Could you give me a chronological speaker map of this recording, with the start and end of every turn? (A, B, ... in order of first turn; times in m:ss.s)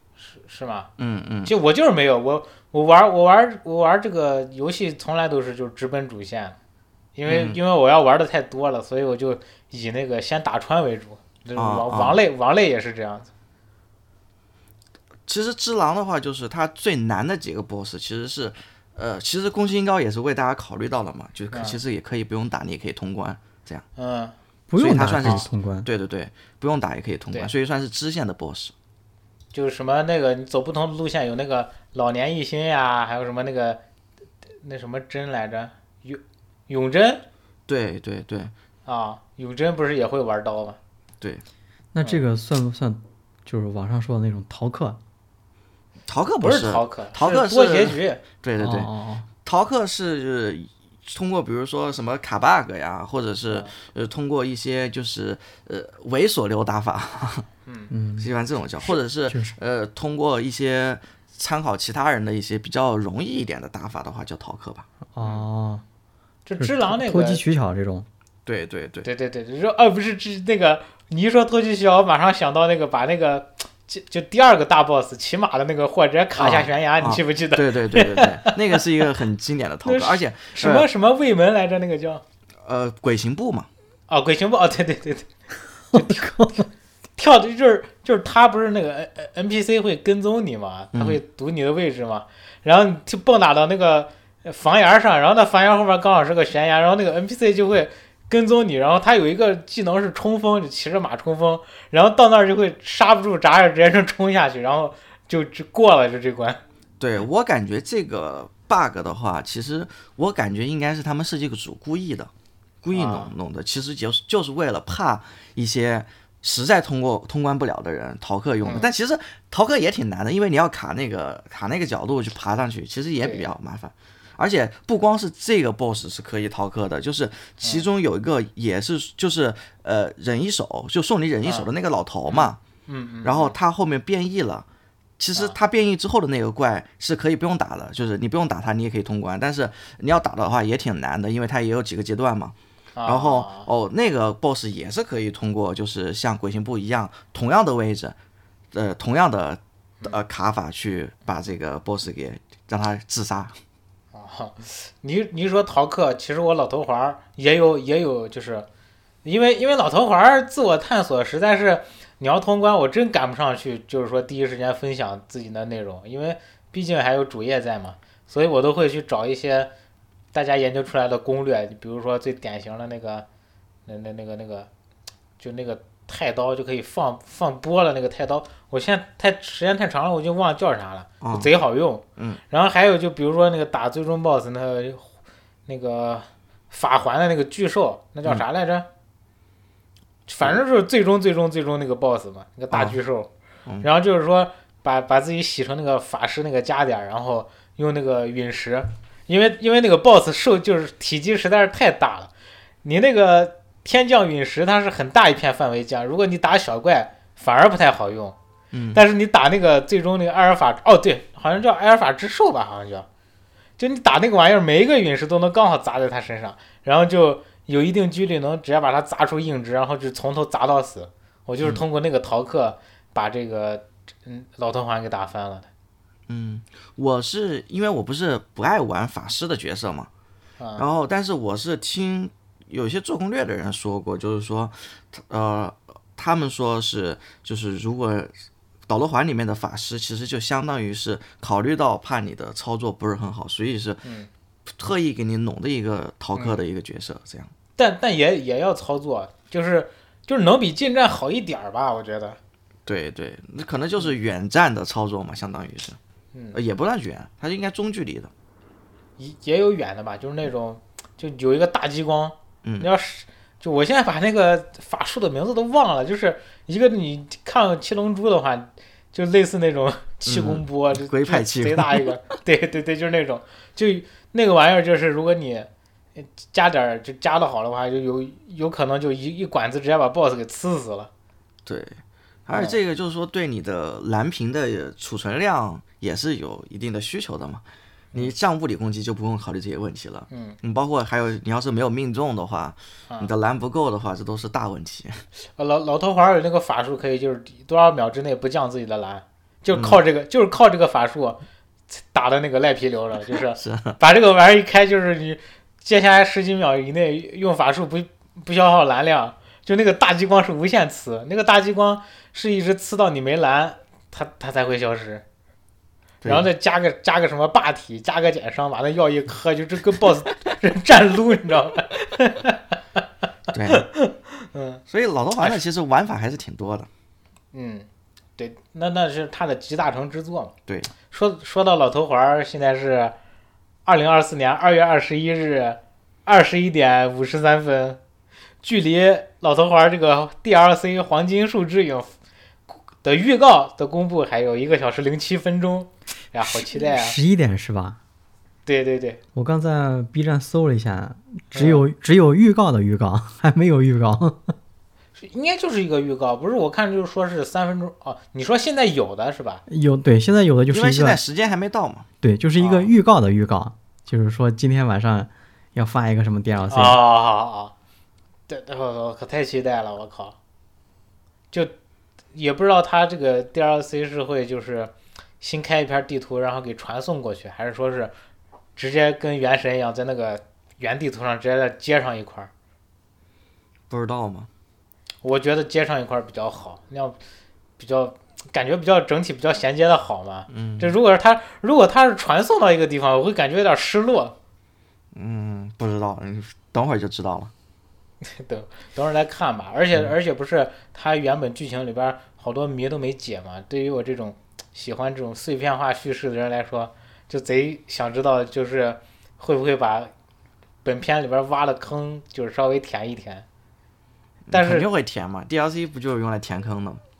0:00.2-0:00.9 A
0:01.0-0:01.5 B
0:01.4-0:06.6 A
0:07.2-0:13.3 A
0:07.3-0:07.6 B
0:11.6-0:12.2 B
0:15.3-0:23.8 B
0:21.5-0:21.8 A
0:24.0-0:24.3 A
0:24.7-0:25.9 C
0:24.8-0:28.7 B
0:29.5-0:33.8 A
0:34.6-0:37.2 A
0:37.7-0:38.5 B
0:38.8-0:40.8 A
0:41.9-0:45.0 C
0:46.1-0:48.9 B
0:46.4-0:48.2 A
0:48.6-0:49.3 C
0:49.4-0:57.4 B
0:57.9-0:58.3 C
0:58.2-1:04.9 B
0:59.3-0:59.5 C
1:05.1-1:05.8 C
1:06.4-1:07.4 A
1:06.6-1:08.1 C
1:08.4-1:09.1 B
1:09.0-1:19.0 A
1:16.4-1:20.9 B
1:19.8-1:22.2 A
1:22.6-1:23.7 B
1:24.1-1:25.3 A
1:25.9-1:26.3 A
1:25.9-1:26.6 C
1:27.2-1:46.6 A
1:30.9-1:31.2 B
1:47.0-1:52.3 B
1:52.8-2:12.6 B
1:52.9-1:53.3 A
1:58.6-1:58.9 A
2:03.2-2:03.5 A
2:11.4-2:11.7 A
2:12.3-2:13.5 A
2:13.2-2:14.6 B
2:15.2-2:28.2 B
2:23.0-2:23.7 A
2:28.7-2:33.5 B
2:34.1-2:38.6 A
2:39.2-2:49.7 A
2:50.3-2:53.2 A
2:53.9-2:54.7 A
2:55.4-3:05.1 A
3:01.2-3:01.5 B
3:05.7-3:08.9 A
3:10.3-3:13.3 A
3:12.7-3:13.0 B
3:13.8-3:22.3 A
3:22.8-3:28.4 A
3:28.7-3:29.0 B
3:28.9-3:33.1 A
3:33.8-3:45.7 A
3:46.3-3:50.1 B
3:50.6-3:50.8 A
3:50.8-3:58.3 B
3:58.9-4:04.0 B
4:04.0-4:04.3 A
4:04.7-4:07.5 B
4:06.4-4:06.6 A
4:07.8-4:12.4 A
4:12.9-4:16.0 B
4:16.5-4:18.3 B
4:19.2-4:41.1 A
4:22.6-4:22.9 B
4:30.2-4:32.1 B
4:41.6-4:55.2 B
4:50.3-4:50.6 A
4:55.6-5:15.2 A
4:59.7-5:00.0 B
5:03.6-5:04.0 B
5:16.2-5:16.5 B
5:16.2-5:22.7 A
5:23.5-5:23.9 B
5:23.7-5:24.8 A
5:24.9-5:26.9 B
5:25.4-5:25.6 A
5:27.5-5:30.5 A
5:31.1-5:33.1 A
5:33.9-5:38.0 A
5:38.6-5:42.1 A
5:43.0-5:47.2 A
5:46.4-5:48.0 C
5:48.6-5:49.2 A
5:49.4-5:54.5 C
5:51.5-5:51.8 A
5:55.2-5:59.6 A
5:59.7-6:01.2 C
6:00.7-6:02.1 B
6:02.2-6:07.0 C
6:02.6-6:02.9 A
6:06.7-6:07.7 A
6:08.5-6:10.4 A
6:12.3-6:18.1 A
6:18.8-6:22.5 A
6:23.9-6:24.5 B
6:25.2-6:27.2 A
6:27.8-6:34.4 A
6:30.5-6:31.0 B
6:35.1-6:37.5 B
6:38.2-6:50.1 A
6:50.8-6:53.4 A
6:54.5-6:57.0 B
6:54.5-6:54.9 A